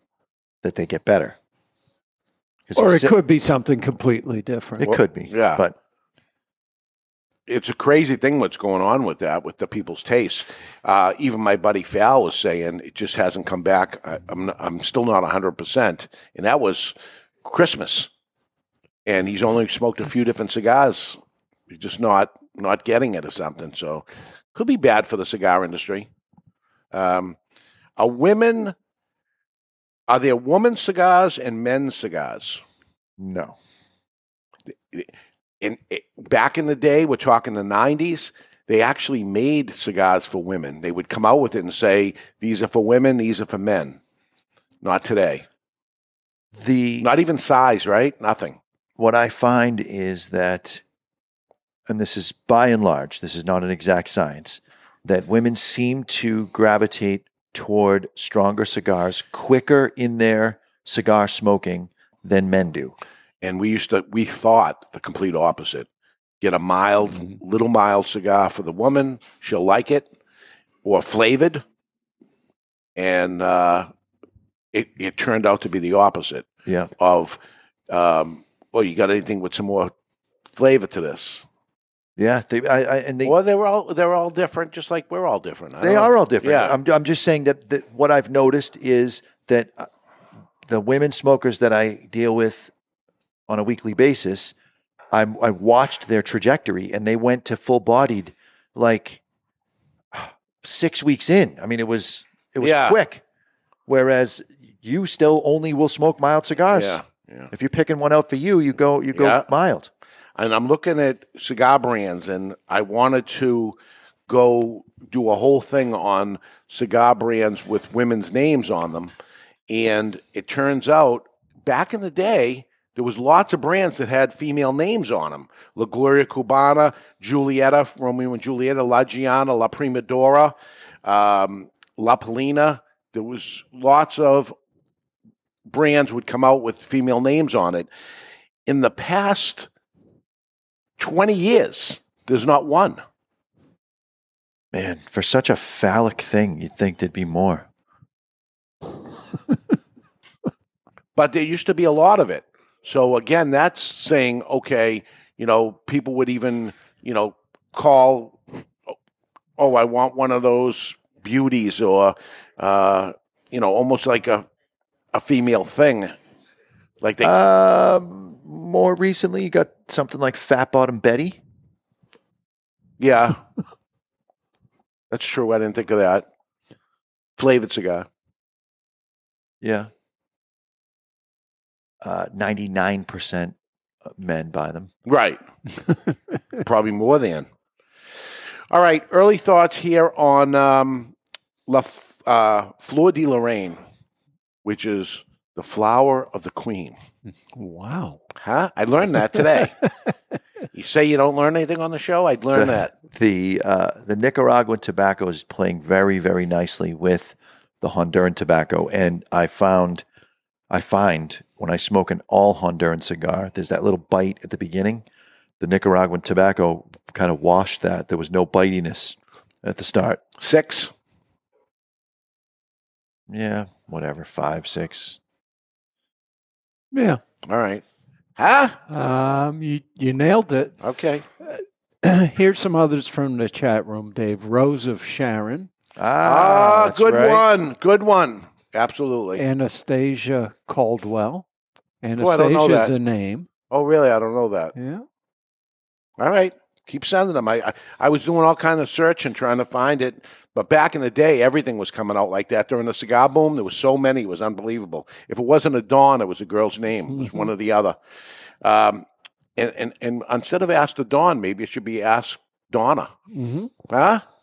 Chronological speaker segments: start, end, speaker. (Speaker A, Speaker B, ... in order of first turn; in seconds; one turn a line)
Speaker A: 0.6-1.4
Speaker A: 2.7-3.2
Speaker B: 2.8-4.9
Speaker A: 4.8-5.8
Speaker C: 4.8-5.6
Speaker C: 7.5-18.1
Speaker C: 19.1-21.2
Speaker C: 21.7-26.1
Speaker C: 26.9-27.4
Speaker C: 28.0-28.7
Speaker C: 30.1-32.6
Speaker A: 33.2-33.6
Speaker C: 35.6-44.0
Speaker C: 44.8-45.5
Speaker A: 46.5-47.1
Speaker C: 47.0-48.6
Speaker A: 49.0-50.8
Speaker A: 51.9-63.0
Speaker C: 63.4-65.9
Speaker C: 66.4-70.1
Speaker C: 70.8-71.6
Speaker C: 73.0-73.9
Speaker C: 74.7-76.5
Speaker A: 76.7-76.9
Speaker C: 77.0-77.4
Speaker C: 77.9-79.9
Speaker C: 80.5-81.4
Speaker A: 82.2-83.3
Speaker C: 83.2-86.8
Speaker A: 85.8-89.9
Speaker A: 90.7-92.7
Speaker A: 93.5-94.5
Speaker A: 95.1-99.2
Speaker A: 100.1-103.2
Speaker C: 102.6-103.0
Speaker A: 103.9-107.0
Speaker C: 106.7-107.5
Speaker A: 107.5-109.9
Speaker C: 109.2-109.5
Speaker C: 110.4-113.8
Speaker C: 114.3-119.1
Speaker C: 119.7-134.5
Speaker C: 135.7-137.9
Speaker C: 138.7-139.7
Speaker C: 141.0-143.0
Speaker A: 144.7-147.7
Speaker C: 151.2-158.4
Speaker C: 159.6-164.5
Speaker C: 165.1-166.1
Speaker C: 167.0-167.3
Speaker A: 167.2-171.4
Speaker C: 173.0-173.4
Speaker C: 175.1-176.2
Speaker C: 177.4-178.1
Speaker A: 179.6-179.9
Speaker A: 182.0-184.9
Speaker C: 185.1-185.4
Speaker C: 186.6-187.5
Speaker C: 188.7-191.1
Speaker C: 191.7-193.8
Speaker C: 194.7-197.0
Speaker B: 197.6-198.2
Speaker C: 198.4-199.7
Speaker C: 200.7-202.9
Speaker A: 202.5-210.0
Speaker A: 210.7-215.1
Speaker A: 215.6-220.2
Speaker C: 220.4-220.9
Speaker A: 223.3-225.2
Speaker B: 226.9-227.2
Speaker C: 227.5-227.8
Speaker C: 228.4-228.8
Speaker B: 228.9-230.8
Speaker C: 230.8-231.2
Speaker B: 231.4-235.7
Speaker A: 236.0-237.5
Speaker C: 236.2-239.4
Speaker B: 239.4-241.5
Speaker B: 242.0-243.5
Speaker C: 242.2-242.9
Speaker C: 243.7-244.7
Speaker B: 244.8-245.0
Speaker C: 246.2-258.0
Speaker C: 258.6-259.1
Speaker C: 259.6-263.1
Speaker B: 263.3-263.7
Speaker C: 263.9-264.2